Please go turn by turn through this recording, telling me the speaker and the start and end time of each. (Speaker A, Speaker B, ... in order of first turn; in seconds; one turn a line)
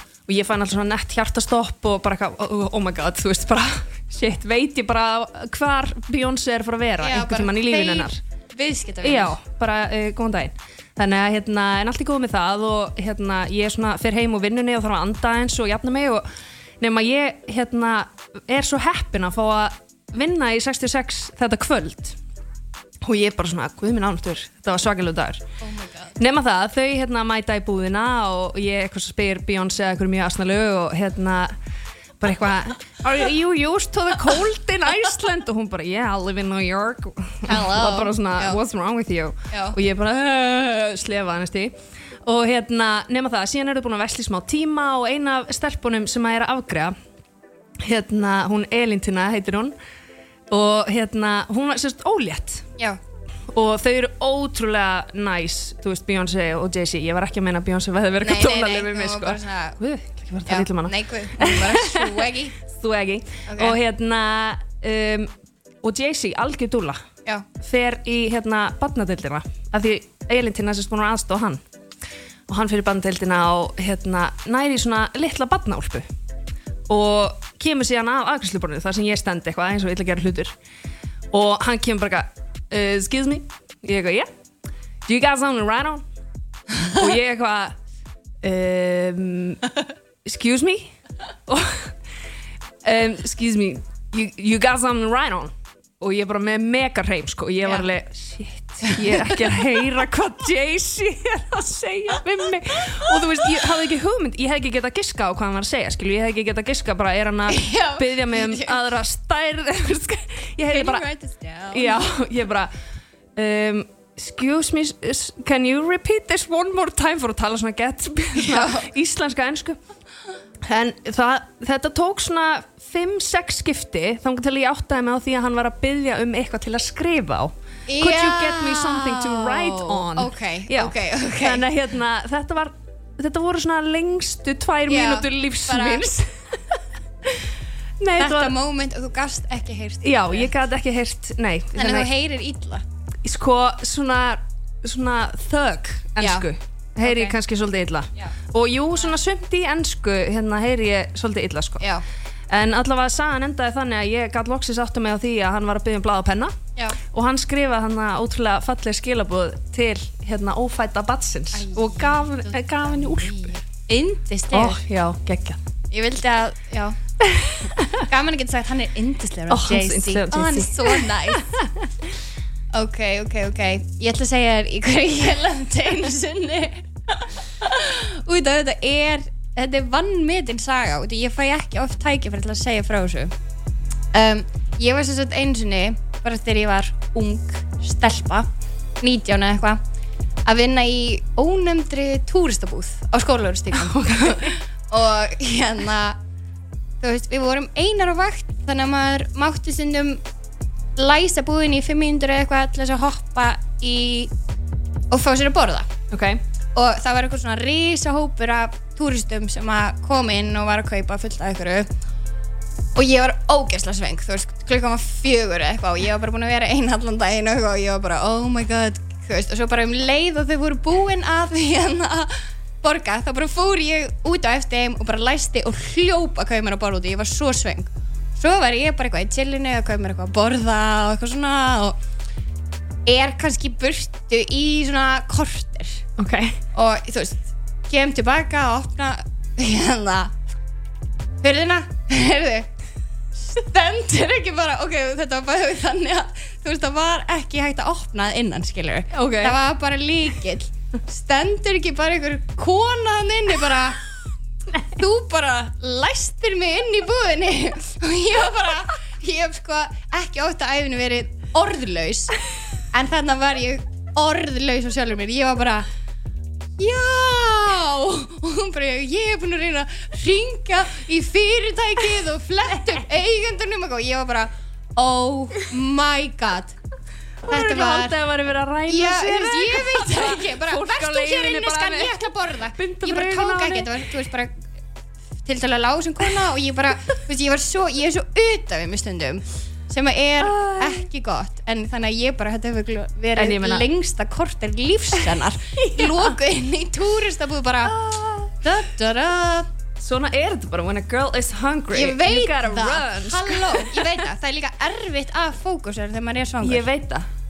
Speaker A: 0.3-8.2
Speaker B: 7.0-9.4
Speaker A: 9.0-16.3
Speaker A: 16.8-22.2
Speaker A: 23.0-25.4
Speaker B: 25.6-26.2
Speaker A: 26.2-31.6
Speaker A: 32.2-46.9
Speaker B: 37.4-38.6
Speaker B: 39.5-39.8
Speaker A: 47.8-49.7
Speaker A: 50.5-52.7
Speaker A: 53.5-67.0
Speaker B: 58.2-59.8
Speaker B: 60.5-62.6
Speaker B: 63.5-63.8
Speaker A: 67.6-71.6
Speaker A: 72.5-76.1
Speaker A: 76.9-80.5
Speaker A: 81.3-84.3
Speaker A: 85.0-86.0
Speaker A: 86.9-87.8
Speaker A: 88.4-89.7
Speaker A: 90.2-91.0
Speaker A: 91.5-92.0
Speaker A: 92.8-111.0
Speaker B: 98.8-99.4
Speaker B: 107.5-108.8
Speaker B: 110.7-112.1
Speaker A: 111.7-112.7
Speaker A: 113.3-119.8
Speaker B: 118.3-118.9
Speaker A: 120.6-138.5
Speaker B: 127.9-131.6
Speaker B: 134.9-136.1
Speaker B: 138.1-140.5
Speaker A: 140.0-142.1
Speaker B: 141.7-142.8
Speaker A: 143.2-151.8
Speaker B: 146.2-146.5
Speaker B: 147.0-147.4
Speaker B: 151.8-152.0
Speaker A: 152.5-163.5
Speaker B: 161.5-164.8
Speaker A: 164.5-165.6
Speaker B: 165.9-167.0
Speaker A: 167.2-168.0
Speaker B: 167.7-171.5
Speaker A: 169.5-171.9
Speaker B: 172.7-183.3
Speaker B: 184.1-188.5
Speaker B: 189.0-189.8
Speaker B: 190.4-196.2
Speaker A: 193.8-194.5
Speaker B: 197.0-200.2
Speaker B: 201.0-204.3
Speaker B: 205.1-205.9
Speaker A: 206.1-206.4
Speaker B: 206.7-211.9
Speaker B: 212.9-232.0
Speaker B: 233.0-236.0
Speaker A: 236.2-236.6
Speaker B: 236.7-240.4
Speaker B: 241.4-242.7
Speaker B: 243.4-254.0
Speaker A: 249.1-249.6
Speaker B: 254.8-262.4
Speaker B: 262.9-265.9
Speaker B: 266.8-276.8
Speaker A: 277.5-284.1
Speaker B: 277.5-278.1
Speaker B: 278.9-284.7
Speaker B: 285.4-297.9
Speaker A: 290.4-291.1
Speaker A: 293.4-293.9
Speaker A: 295.8-296.3
Speaker A: 297.8-298.5
Speaker B: 298.6-299.7
Speaker A: 300.0-304.2
Speaker B: 301.9-306.9
Speaker A: 306.6-307.3